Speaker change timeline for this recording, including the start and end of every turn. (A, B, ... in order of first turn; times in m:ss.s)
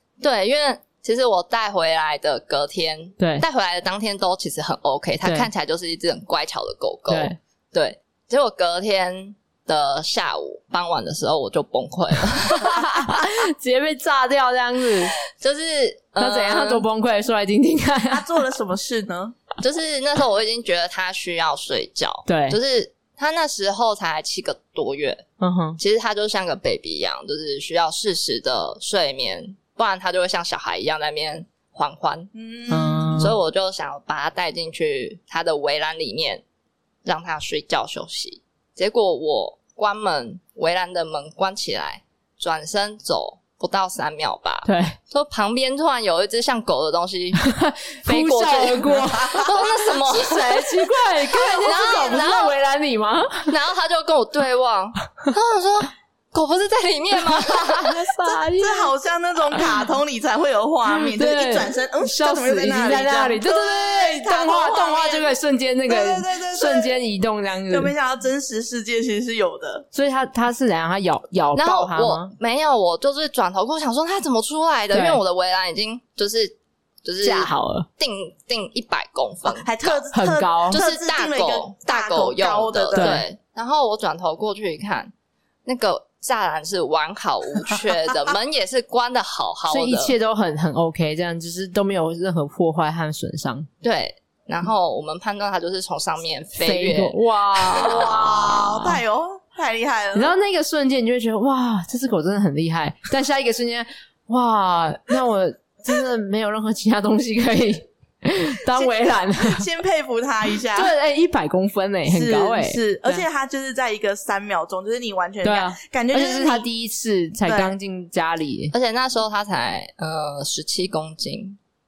0:00.2-0:13.2 A
0:03.2-0:03.4 B
0:05.2-0:05.5 B
0:07.1-0:07.4 B
0:12.5-0:15.1 B
0:15.4-0:16.8 A
0:16.2-0:18.4 B
0:18.1-0:19.4 C
0:19.6-0:25.2 A
0:22.3-0:22.6 B
0:25.4-0:25.8 B
0:25.8-0:32.3 A
0:32.3-0:33.3 C
0:32.7-0:33.4 B
0:33.2-0:36.4 A
0:37.0-0:47.4 A
0:44.6-0:45.0 B
0:47.4-0:53.5 B
0:48.0-0:50.5 A
0:48.8-0:49.5 C
0:51.4-0:52.6 A
0:53.5-0:58.0 A
0:57.2-0:58.9 B
0:58.6-1:05.3 C
1:00.9-1:07.9 B
1:05.9-1:07.0 C
1:07.7-1:09.9 C
1:09.9-1:12.3 B
1:11.5-1:20.0 A
1:14.9-1:15.2 B
1:17.2-1:17.9 B
1:19.4-1:23.2 C
1:20.1-1:20.8 B
1:20.7-1:25.1 A
1:23.0-1:23.3 B
1:25.6-1:30.1 A
1:29.7-1:33.7 B
1:33.8-1:38.2 A
1:36.6-1:39.0 B
1:37.7-1:40.3 C
1:40.1-1:49.7 B
1:48.7-1:50.9 C
1:50.7-1:53.3 B
1:52.1-1:56.7 C
1:55.4-1:58.7 B
1:57.5-1:57.7 C
1:58.7-2:01.6 A